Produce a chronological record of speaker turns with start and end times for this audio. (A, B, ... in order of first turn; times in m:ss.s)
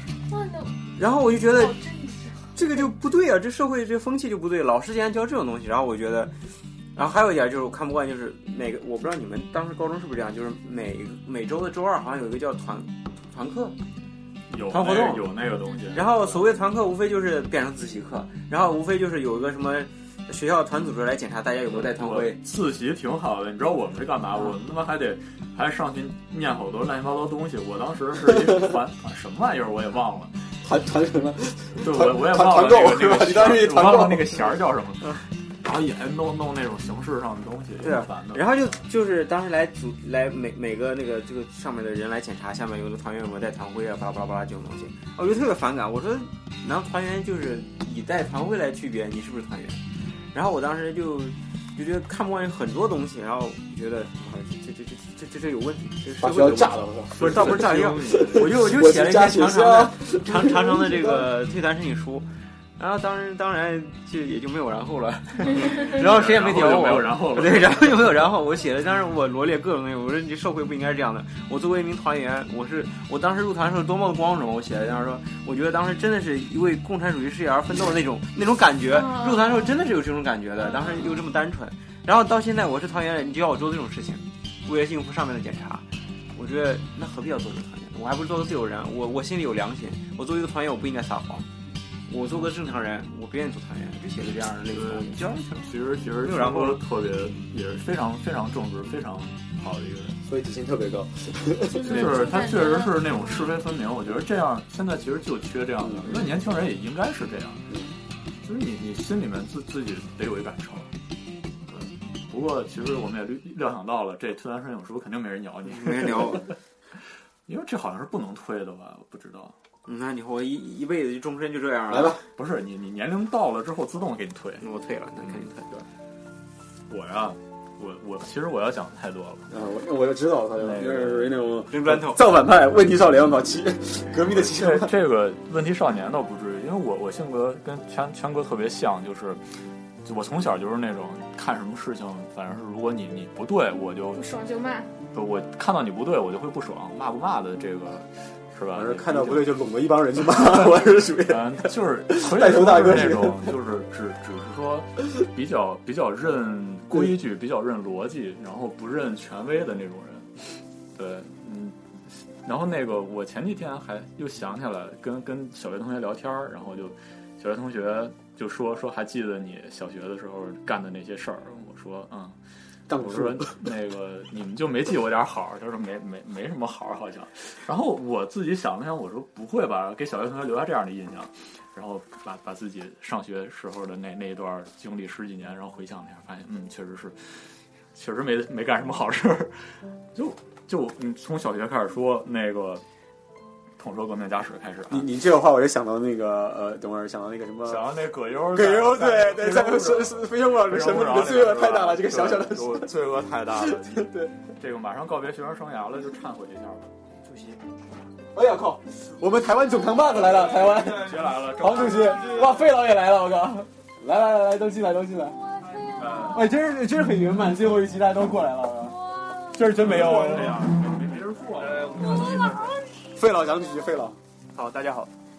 0:00.3-0:00.7 A
0:01.0-0:01.8 B
0:01.4-0:02.9 A
0:02.6-0:06.3 B
0:07.0-0:13.8 B
0:14.5-0:16.5 C
0:14.7-0:22.4 B
0:21.7-0:30.4 C
0:30.6-0:34.6 D
0:31.8-0:38.8 C
0:37.8-0:49.8 B
0:50.3-1:31.5 B
0:56.2-1:01.3 D
0:57.2-0:58.5 C
1:05.5-1:08.2 C
1:18.9-1:19.7 A
1:20.6-1:21.3 A
1:32.1-1:35.5 B
1:34.7-1:40.2 C
1:36.2-1:36.8 B
1:40.2-1:42.4 D
1:41.7-1:43.1 A
1:41.8-1:47.6 C
1:45.8-1:46.4 D
1:47.7-1:48.0 D
1:48.4-1:50.9 C
1:52.3-1:56.4 C
1:55.7-1:56.5 B
1:57.5-1:59.6 C
1:59.9-2:02.2 B
2:01.9-2:02.3 D
2:02.4-2:04.7 C
2:04.6-2:05.7 B
2:05.2-2:05.8 C
2:06.9-2:09.5 C
2:09.5-2:14.9 D
2:10.6-2:11.5 C
2:11.7-2:12.2 B
2:14.2-2:19.4 C
2:20.0-2:24.2 C
2:24.1-2:24.9 A
2:25.1-2:29.6 C
2:28.7-2:33.6 D
2:30.4-2:40.3 C
2:41.0-2:52.4 C
2:52.9-2:53.6 D
2:52.9-3:07.4 C
3:08.0-3:09.6 C
3:10.2-3:12.8 C
3:13.8-3:15.1 C
3:14.9-3:24.4 D
3:17.6-3:26.9 C
3:27.3-3:27.5 B
3:28.3-3:35.4 D
3:30.3-3:32.5 C
3:30.7-3:31.2 E
3:32.1-3:32.6 E
3:35.4-3:36.4 A
3:35.8-3:36.1 E
3:36.0-3:36.5 C
3:36.3-3:39.0 D
3:38.8-3:39.8 A
3:39.5-3:42.2 C
3:39.8-3:40.8 E
3:39.8-3:40.4 D
3:41.6-3:42.8 E
3:42.0-3:43.1 A
3:43.2-3:44.2 D
3:44.6-3:45.1 E